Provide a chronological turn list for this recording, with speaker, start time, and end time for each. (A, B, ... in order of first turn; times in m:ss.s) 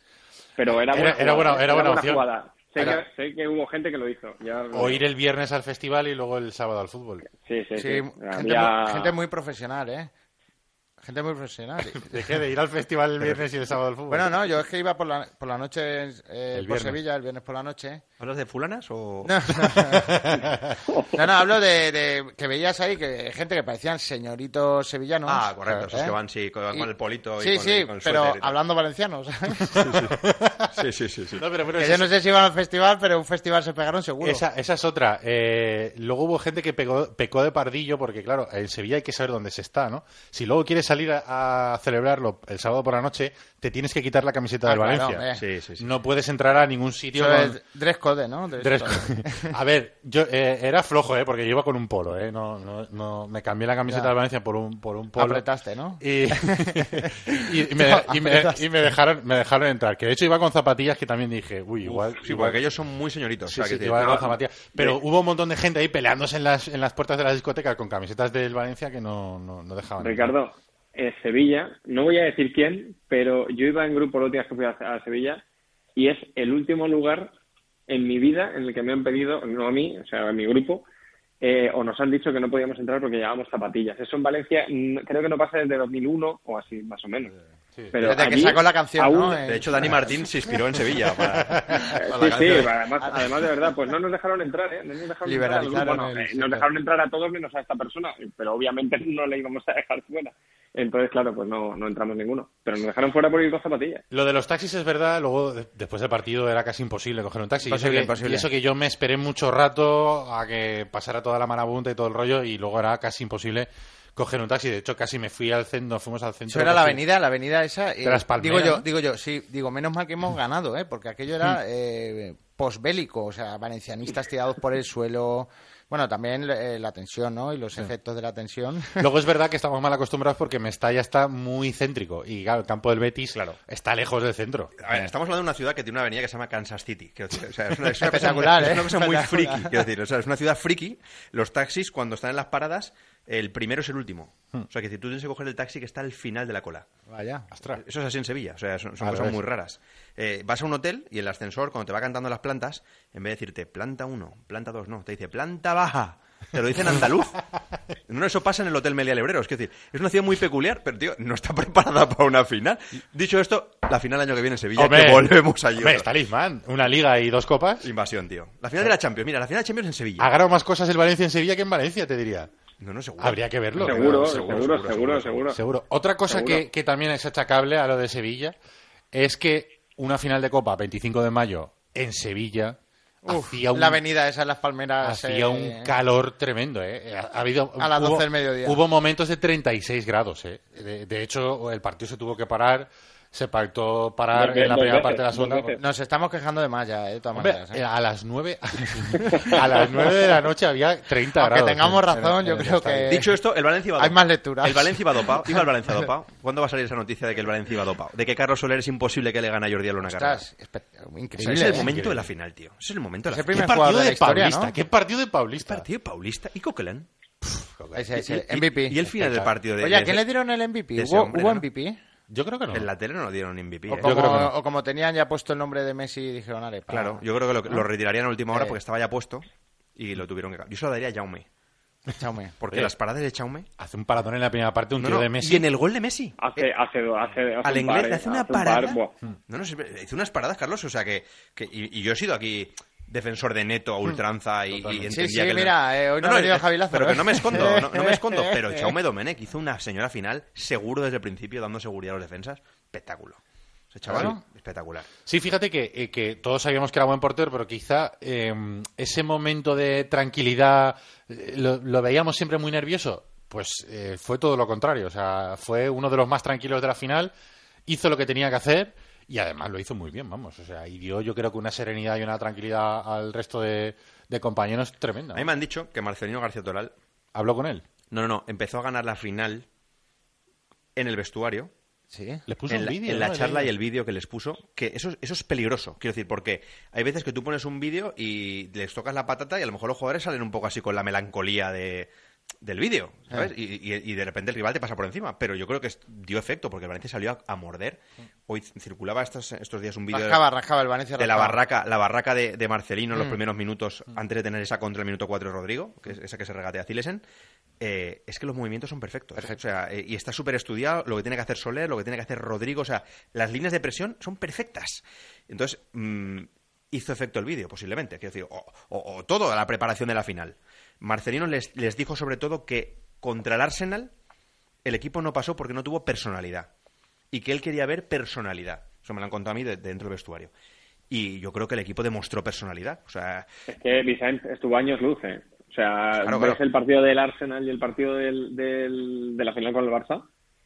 0:00.6-0:05.0 A
0:00.7-0:02.2 B
0:04.7-0:07.3 B
0:07.4-0:09.2 A
0:07.8-0:10.1 C
0:11.0-0:12.2 C
0:11.9-0:14.3 B
0:14.1-0:18.0 C
0:16.5-0:17.0 B
0:18.2-0:19.7 D
0:19.2-0:20.2 C
0:19.9-0:20.8 B
0:20.9-0:21.1 A
0:21.1-0:26.1 C
0:25.2-0:28.5 D
0:26.7-0:29.7 C
0:29.7-0:30.8 B
0:29.7-0:31.4 D
0:31.4-0:32.1 B
0:31.8-0:34.4 C
0:34.2-0:45.2 B
0:44.6-0:45.4 C
0:45.3-0:45.9 D
0:45.8-0:47.6 B
0:47.1-0:49.5 C
0:48.6-0:55.4 B
0:55.2-0:58.6 C
0:56.0-1:02.6 B
1:01.8-1:04.3 D
1:03.4-1:10.3 B
1:10.0-1:15.4 A
1:16.0-1:17.3 A
1:17.9-1:20.8 A
1:21.4-1:27.3 A
1:27.9-1:29.4 A
1:28.0-1:30.1 C
1:29.4-1:32.7 D
1:31.4-1:31.9 B
1:31.8-1:44.0 A
1:35.2-1:36.6 C
1:44.1-1:57.0 B
1:47.6-1:48.5 C
1:56.5-2:09.1 C
1:58.0-1:58.8 B
2:09.0-2:14.7 B
2:14.8-2:26.9 D
2:18.0-2:19.8 C
2:27.1-2:27.5 C
2:27.5-2:27.8 B
2:27.7-2:37.4 D
2:29.0-2:29.4 B
2:38.1-2:46.1 D
2:44.7-2:47.9 B
2:47.8-2:50.3 D
2:50.2-2:52.5 B
2:52.8-2:55.4 D
2:53.2-2:54.7 B
2:53.8-2:55.6 A
2:55.5-2:58.5 B
2:56.3-2:56.6 A
2:59.1-3:04.0 B
3:03.2-3:05.9 C
3:05.0-3:15.8 B
3:07.8-3:08.8 C
3:14.3-3:15.8 A
3:15.8-3:17.8 C
3:17.3-3:23.3 B
3:19.2-3:19.6 C
3:21.4-3:23.3 C
3:23.1-3:30.4 D
3:24.0-3:25.6 C
3:30.0-3:31.9 C
3:31.4-3:32.3 B
3:31.4-3:33.7 D
3:33.3-3:34.7 C
3:33.5-3:35.9 B
3:35.6-3:37.1 D
3:37.4-3:38.3 B
3:37.9-3:39.0 C
3:38.2-3:40.2 D
3:39.0-3:39.5 B
3:39.8-3:42.0 C
3:40.9-3:41.6 D
3:42.3-3:42.9 B
3:42.7-3:44.2 D
3:43.9-3:47.2 C
3:44.0-3:44.5 B
3:46.9-3:51.5 D
3:48.5-3:48.8 C
3:52.1-3:52.5 C
3:52.6-3:53.7 D
3:53.8-3:55.6 B
3:55.0-3:56.6 D
3:56.4-3:59.1 A
3:57.6-4:13.4 D
4:04.7-4:05.1 B
4:05.1-4:08.9 C
4:13.9-4:15.1 D
4:14.0-4:14.4 B
4:15.2-4:27.3 B
4:27.9-4:35.5 B
4:35.3-4:36.9 D
4:37.3-4:37.9 B
4:38.1-4:39.6 D
4:41.0-4:41.7 D
4:42.1-4:42.4 C
4:42.5-4:43.7 B
4:42.7-4:52.1 D
4:52.6-5:00.4 D
5:00.1-5:01.6 C
5:01.2-5:07.2 D
5:07.8-5:24.1 D
5:24.8-5:26.7 D
5:27.3-5:30.5 D
5:31.1-5:33.5 D
5:33.7-5:40.2 A
5:36.2-5:36.6 D